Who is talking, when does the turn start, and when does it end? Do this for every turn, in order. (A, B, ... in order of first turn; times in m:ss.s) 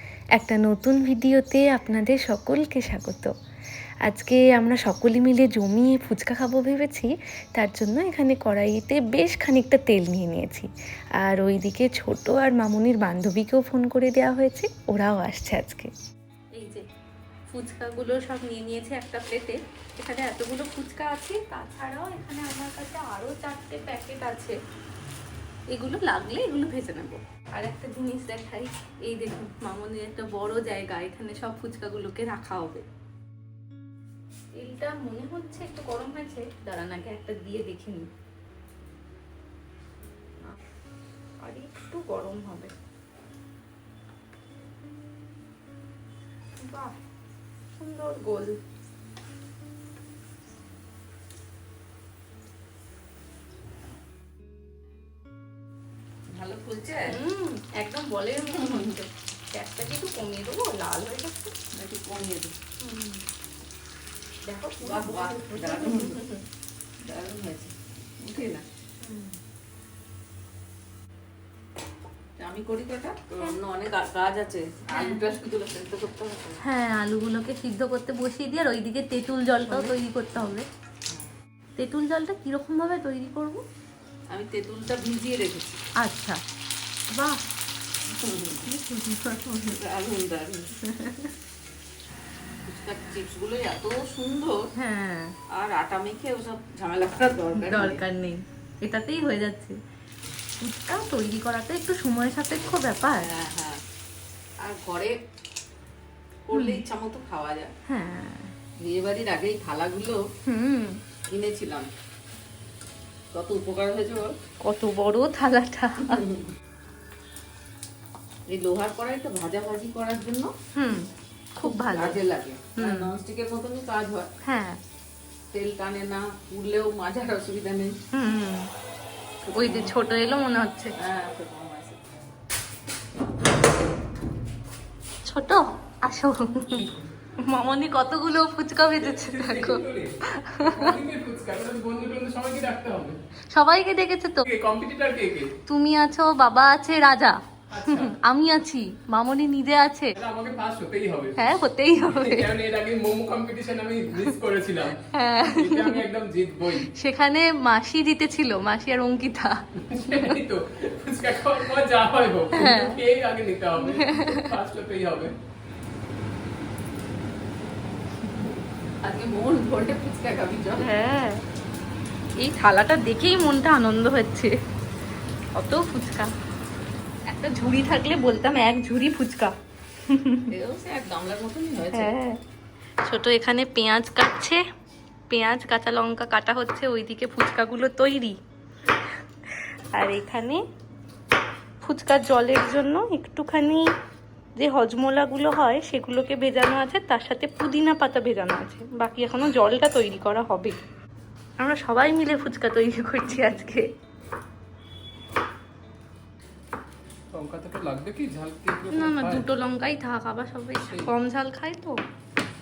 0:00.4-0:03.3 A
0:04.1-0:10.7 A
0:11.2-0:15.9 A
0:16.5-0:16.8 B
0:17.5-0:24.6 B
0:25.7-0:32.8 B
0:34.6-0:38.0 B
0:41.4-0:42.7 B
0:46.6-0:47.0 B
0:47.8-0:48.6 B
0:56.3-0:57.1 C
0:57.1-1:01.5 B
1:01.7-1:02.5 C
1:02.8-1:03.3 B
1:04.4-1:06.4 B
1:04.8-1:06.2 C
1:07.0-1:08.6 C
1:09.0-1:09.4 B
1:12.4-1:16.6 C
1:14.9-1:15.2 B
1:16.6-1:20.7 B
1:19.6-1:19.9 C
1:21.8-1:23.6 B
1:24.3-1:25.8 C
1:26.0-1:26.4 B
1:27.1-1:27.4 B
1:28.1-1:28.7 C
1:28.7-1:29.6 B
1:29.6-1:30.7 C
1:30.8-1:31.3 B
1:32.6-1:34.6 C
1:34.8-1:35.3 B
1:35.5-1:38.0 C
1:37.6-1:39.8 B
1:40.6-1:43.2 B
1:43.2-1:43.8 C
1:44.6-1:45.2 C
1:46.5-1:47.7 C
1:46.5-1:46.8 B
1:47.9-1:48.5 B
1:48.8-1:50.2 C
1:50.5-1:51.0 B
1:51.3-1:51.9 C
1:53.3-1:54.4 C
1:54.6-1:56.2 B
1:56.1-1:56.5 C
1:58.5-2:00.5 C
2:00.8-2:01.1 B
2:01.6-2:02.2 B
2:01.6-2:04.3 C
2:02.8-2:03.1 B
2:04.4-2:04.8 B
2:05.5-2:08.0 C
2:08.1-2:08.7 B
2:09.4-2:09.9 C
2:09.5-2:10.9 B
2:11.0-2:12.0 C
2:15.2-2:16.9 B
2:17.4-2:20.7 B
2:19.1-2:23.2 D
2:23.5-2:24.4 B
2:24.4-2:25.5 D
2:25.7-2:30.2 B
2:27.7-2:28.2 D
2:30.2-2:31.4 D
2:31.4-2:32.5 B
2:32.1-2:35.0 D
2:35.1-2:36.0 B
2:35.5-2:36.9 D
2:37.0-2:40.3 B
2:39.9-2:45.3 D
2:42.6-2:43.0 B
2:43.8-2:44.4 B
2:49.0-2:50.9 C
2:50.8-2:51.4 B
2:52.4-2:54.5 B
2:55.6-2:56.3 B
2:57.3-2:59.5 B
3:00.1-3:00.5 B
3:00.5-3:02.1 C
3:01.9-3:02.4 B
3:03.0-3:04.6 B
3:05.3-3:08.4 B
3:10.0-3:10.6 B
3:11.8-3:13.9 B
3:14.6-3:20.8 B
3:21.6-3:23.9 B
3:27.3-3:29.5 D
3:28.9-3:32.0 B
3:30.8-3:31.1 D